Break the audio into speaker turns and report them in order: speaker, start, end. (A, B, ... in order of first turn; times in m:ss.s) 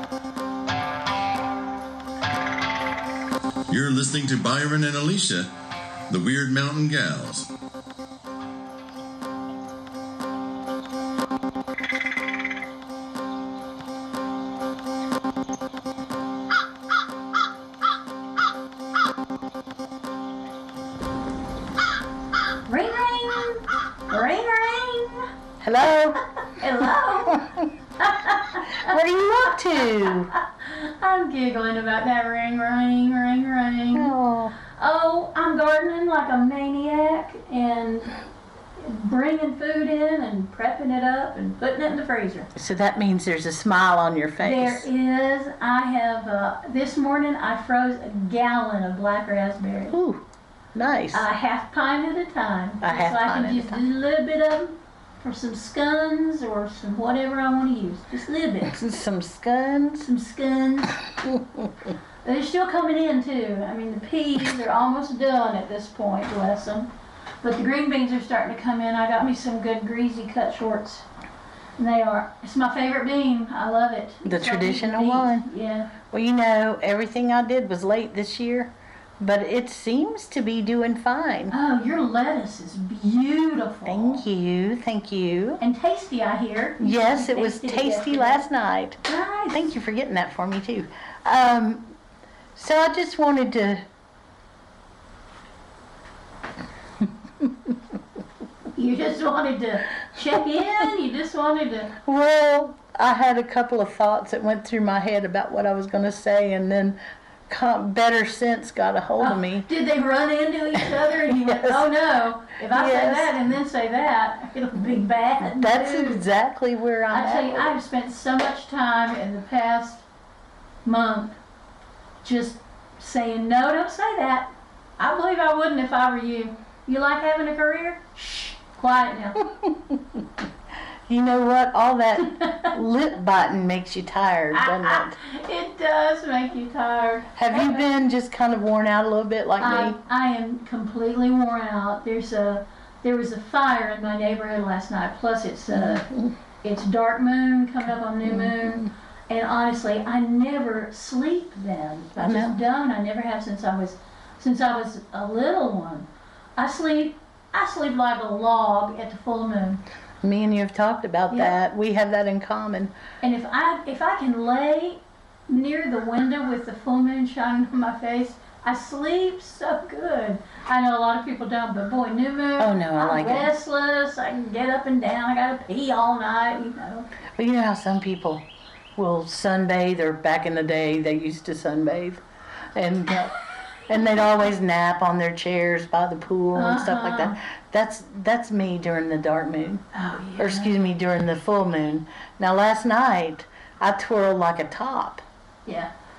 0:03.7-0:05.5 A
0:06.1-0:07.5 A
0:22.7-0:25.3 B
0:25.6-0:26.2 C
0:26.5-0:27.4 B
0:26.8-0:27.7 C
0:28.0-0:29.0 B
0:28.6-0:30.3 C
0:30.0-0:34.1 B
0:33.9-0:34.6 C
0:34.8-0:38.2 B
0:38.8-0:42.5 B
0:42.6-0:44.9 C
0:44.4-0:50.0 B
0:49.9-0:50.2 C
0:50.8-0:51.3 C
0:51.1-0:58.8 B
0:52.8-0:53.8 C
0:58.6-1:00.1 C
1:00.0-1:01.0 B
1:01.2-1:01.6 C
1:02.2-1:06.9 B
1:07.4-1:11.0 B
1:11.8-1:15.9 B
1:14.2-1:15.5 C
1:16.1-1:21.5 C
1:21.5-1:24.2 B
1:23.8-1:25.6 C
1:25.6-1:28.4 B
1:26.8-1:29.0 C
1:29.0-1:29.7 B
1:29.5-1:31.9 C
1:32.6-1:33.8 C
1:38.8-1:41.9 B
1:42.0-1:47.0 C
1:47.5-1:49.7 C
1:49.2-1:56.2 B
1:50.8-1:51.9 C
1:52.7-1:53.4 C
1:55.4-1:57.8 C
1:57.1-2:00.0 B
2:00.8-2:01.4 B
2:02.2-2:09.5 B
2:09.5-2:10.2 C
2:11.1-2:15.2 C
2:12.3-2:12.7 B
2:14.5-2:17.8 B
2:17.4-2:20.0 C
2:19.6-2:26.1 B
2:25.7-2:26.3 C
2:26.6-2:39.8 B
2:28.2-2:28.9 C
2:32.2-2:32.6 C
2:40.2-2:42.9 C
2:43.2-2:57.1 B
2:52.6-2:53.5 C
2:57.4-2:58.4 C
2:59.0-3:02.2 C
3:02.8-3:03.4 C
3:03.9-3:09.8 C
3:06.5-3:07.4 B
3:09.9-3:10.8 B
3:10.4-3:15.2 C
3:15.7-3:15.9 B